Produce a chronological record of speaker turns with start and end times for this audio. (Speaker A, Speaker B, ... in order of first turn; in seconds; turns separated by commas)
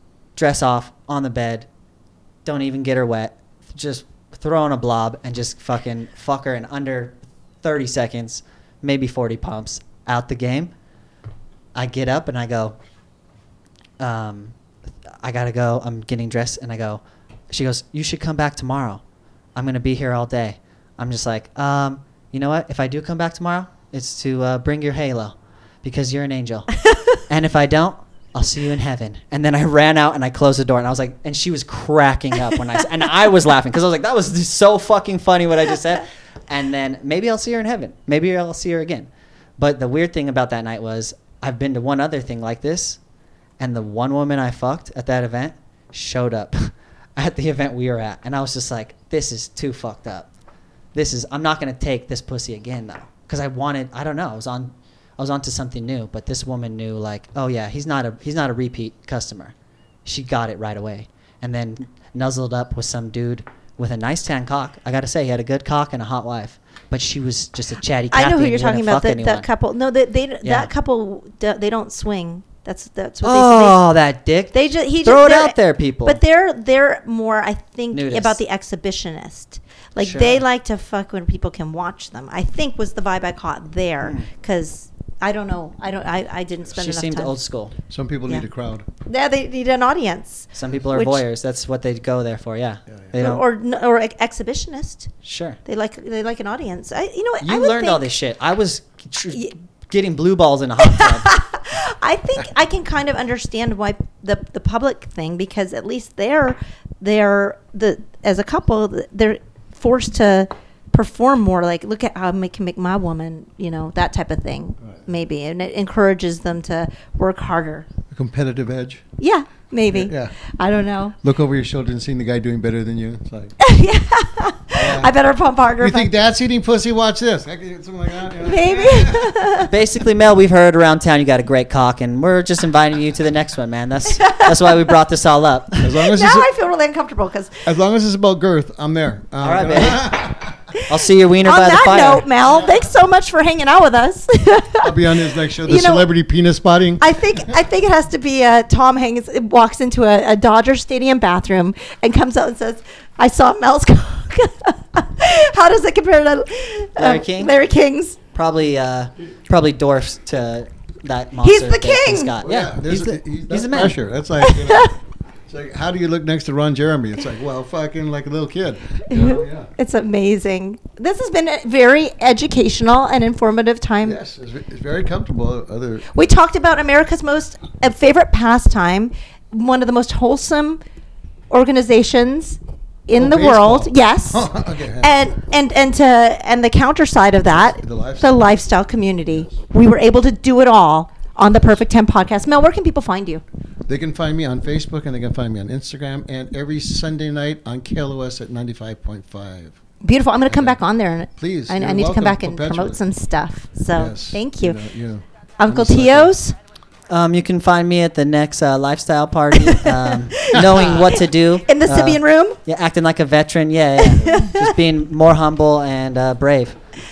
Speaker A: 0.4-1.7, Speaker A: 2.5-10.7, Speaker A: 11.8-12.8, Speaker A: 14.0-14.5, Speaker A: 15.2-19.0, Speaker A: 19.6-43.0, Speaker A: 43.6-50.3, Speaker A: 50.9-59.5, Speaker A: 60.0-69.5, Speaker B: 68.1-73.8, Speaker A: 70.4-70.7, Speaker A: 73.2-76.2, Speaker B: 74.5-87.4, Speaker A: 77.9-78.4, Speaker A: 80.0-80.4, Speaker A: 86.8-87.8, Speaker C: 87.9-88.9, Speaker B: 89.1-91.2, Speaker A: 90.5-93.5, Speaker C: 92.9-93.2, Speaker B: 93.2-95.1, Speaker A: 95.2-95.6, Speaker B: 95.7-98.1, Speaker A: 97.4-101.3, Speaker B: 100.8-117.9, Speaker C: 118.1-119.0, Speaker B: 119.2-121.2, Speaker C: 119.9-120.3, Speaker C: 121.2-123.5, Speaker B: 123.6-126.1, Speaker C: 124.8-125.1, Speaker C: 125.8-129.4, Speaker B: 128.4-129.7, Speaker A: 129.7-136.0, Speaker B: 134.1-134.9, Speaker C: 135.8-136.5, Speaker B: 136.1-137.6, Speaker C: 137.7-140.5, Speaker A: 139.4-140.2, Speaker B: 140.7-146.1, Speaker A: 140.9-142.2, Speaker C: 144.8-147.0, Speaker B: 147.0-158.2, Speaker A: 157.0-157.6, Speaker A: 158.3-164.0, Speaker B: 161.4-162.3, Speaker C: 162.4-164.9, Speaker B: 164.4-164.9, Speaker C: 165.5-169.7, Speaker B: 169.1-174.2, Speaker C: 174.0-176.1, Speaker B: 176.1-180.8, Speaker B: 181.5-184.5, Speaker C: 183.2-185.1, Speaker B: 185.0-193.4, Speaker C: 187.6-188.5, Speaker C: 193.9-199.8, Speaker B: 200.0-204.8, Speaker C: 200.5-200.8, Speaker C: 201.4-203.0, Speaker C: 203.9-206.3, Speaker B: 205.6-206.6, Speaker A: 207.1-216.8, Speaker B: 209.5-212.6, Speaker B: 214.0-214.6